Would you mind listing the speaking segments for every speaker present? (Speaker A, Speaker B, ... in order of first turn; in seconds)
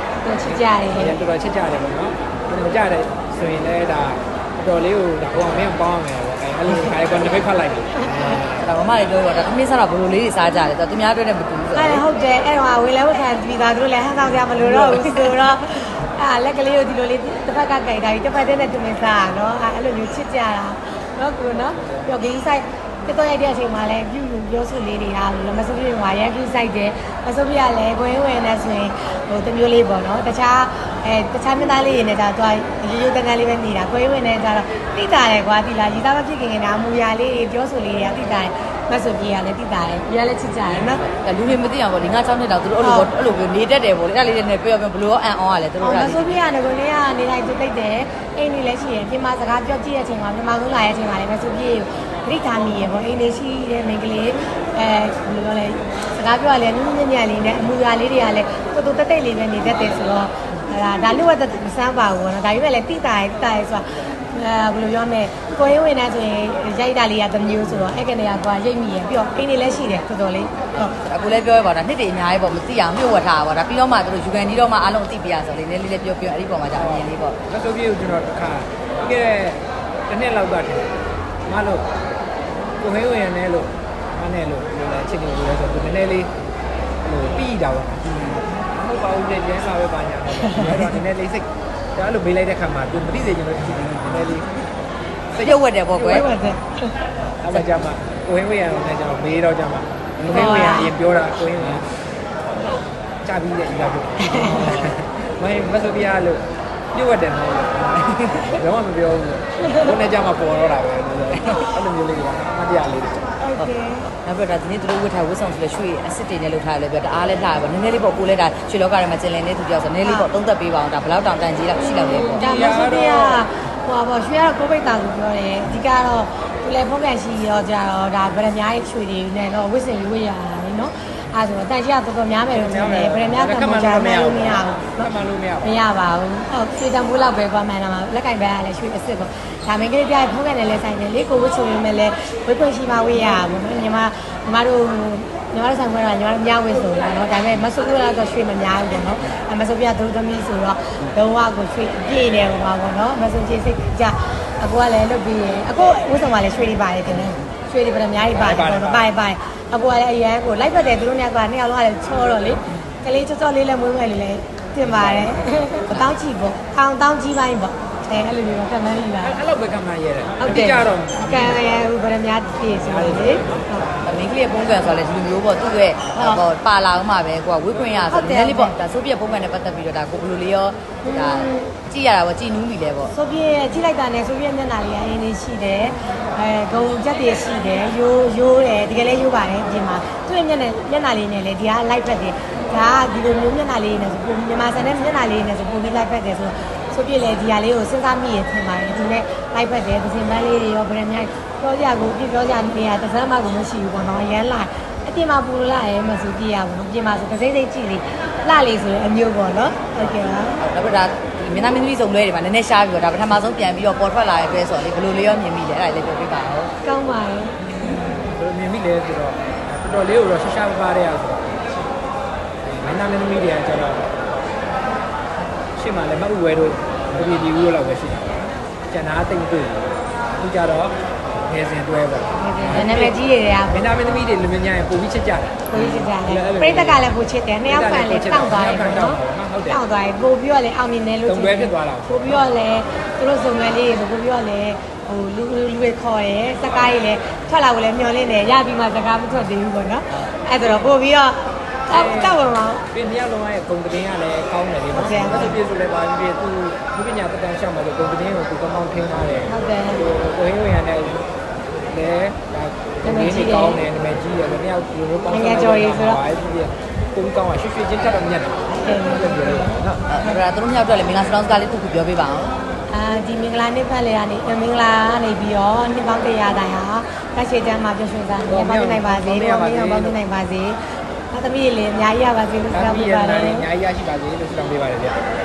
Speaker A: 0.2-1.1, 11.7-41.1, 42.8-43.1, 45.8-71.0, 95.9-97.0, 100.3-100.9, 104.2-104.9, 109.6-109.9, 113.4-114.1, 120.0-120.3, 121.8-135.1, 135.6-169.4, 170.4-173.9, 176.2-176.4, 178.1-178.8, 181.0-181.7, 183.1-210.6, 216.8-217.6, 232.3-233.8, 235.7-252.8, 254.9-255.6, 259.5-260.1, 263.0-263.8, 265.3-266.2, 268.7-270.4, 272.9-283.6
Speaker B: 0.4-8.8, 76.8-81.0, 81.5-81.8, 82.8-86.3, 87.0-94.5, 95.3-95.6, 97.4-101.8, 103.2-113.2, 122.2-123.5, 132.5-135.8, 158.3-159.1, 164.8-165.7, 169.2-171.7, 172.7-174.3, 177.7-178.1, 218.2-221.7, 222.7-224.1, 225.8-233.2, 233.7-237.2, 237.7-239.8, 241.3-242.5, 251.9-261.3, 261.9-270.0, 278.5-280.2, 282.7-285.2
Speaker C: 8.6-12.0, 14.8-15.0, 41.1-46.4, 71.0-77.4, 95.4-96.3, 100.2-100.6, 114.2-122.4, 174.0-183.1, 210.6-216.7, 270.1-272.6